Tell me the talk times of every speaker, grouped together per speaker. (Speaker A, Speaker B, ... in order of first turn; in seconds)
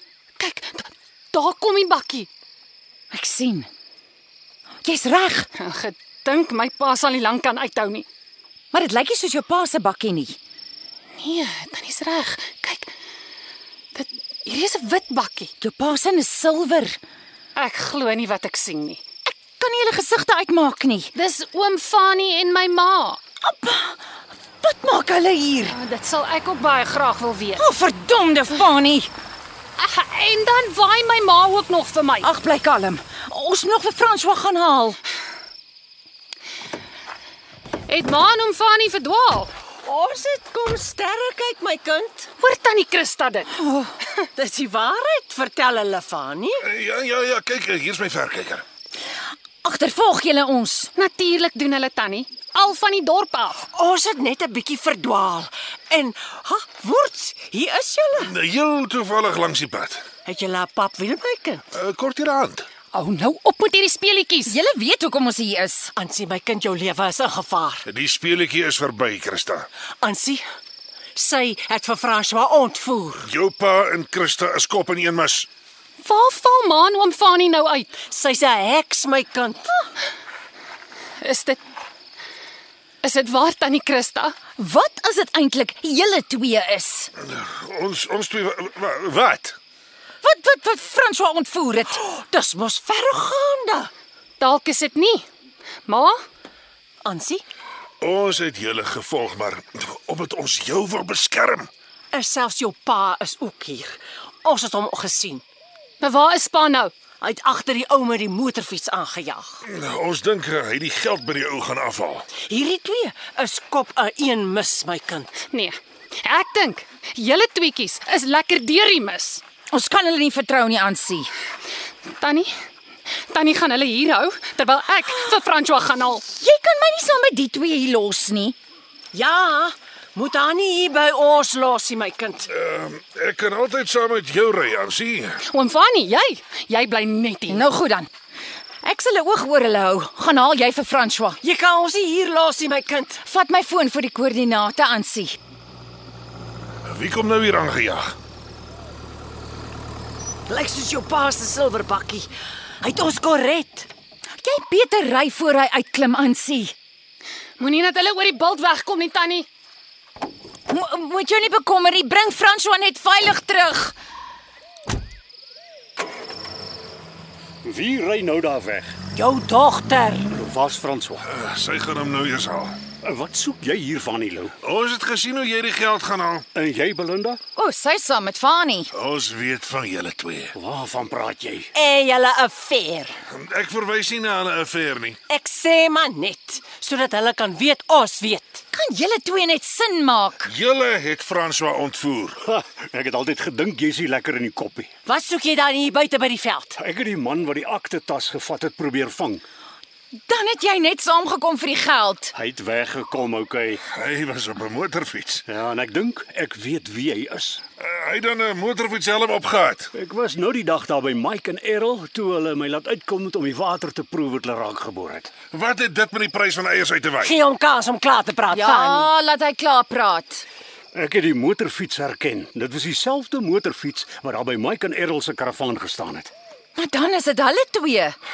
Speaker A: 0.4-2.3, 5.6-8.1, 11.2-12.9, 13.9-15.5, 17.6-19.0, 21.1-23.2, 25.7-27.6, 29.8-32.3, 37.9-39.5, 42.4-43.6, 51.0-53.6, 62.9-64.5, 76.0-77.9, 81.2-81.6, 83.0-84.4, 94.4-95.3, 95.9-96.2, 106.0-106.9, 115.4-119.4, 122.2-122.5, 123.3-126.2, 135.5-137.7, 157.6-159.5
Speaker B: 3.1-3.7, 4.8-5.5, 8.7-10.4, 15.6-17.0, 19.2-21.1, 23.4-24.0, 24.6-25.7, 27.6-29.1, 32.2-35.0, 43.6-43.9, 49.6-50.9, 64.4-65.9, 84.6-87.1, 90.2-92.0, 119.7-121.3, 126.3-128.6, 137.5-138.1, 138.8-141.4, 143.2-145.4, 154.4-156.7, 160.7-163.9, 177.6-178.9, 188.7-190.5, 200.3-202.3, 218.5-220.4, 226.8-228.2
Speaker C: 39.8-42.3, 44.4-46.6, 53.7-58.3, 60.2-61.6, 65.9-67.8, 70.0-70.4, 71.2-73.2, 78.0-79.8, 92.0-93.9, 97.0-97.4, 102.1-105.4, 107.2-109.5, 112.5-115.3, 129.1-132.5, 141.4-143.2, 150.5-152.3, 152.8-153.9, 169.1-170.3, 181.7-183.2, 185.3-188.6, 195.1-196.8, 217.2-219.1
Speaker D: 46.6-48.6, 58.2-60.0, 61.7-62.7, 67.8-69.7, 73.2-75.5, 87.2-89.6, 98.0-101.7, 109.7-112.2, 132.5-135.4, 146.8-148.1, 171.2-172.8, 174.6-176.5, 178.9-180.5, 183.3-185.2, 190.4-192.4, 203.9-205.4, 207.8-209.9, 215.5-217.3
Speaker E: 167.6-168.9, 170.3-171.2, 173.0-174.5, 176.5-177.4, 180.5-181.7, 192.4-194.9, 196.8-199.4, 202.3-203.8, 205.4-207.6, 209.9-215.4, 220.9-226.3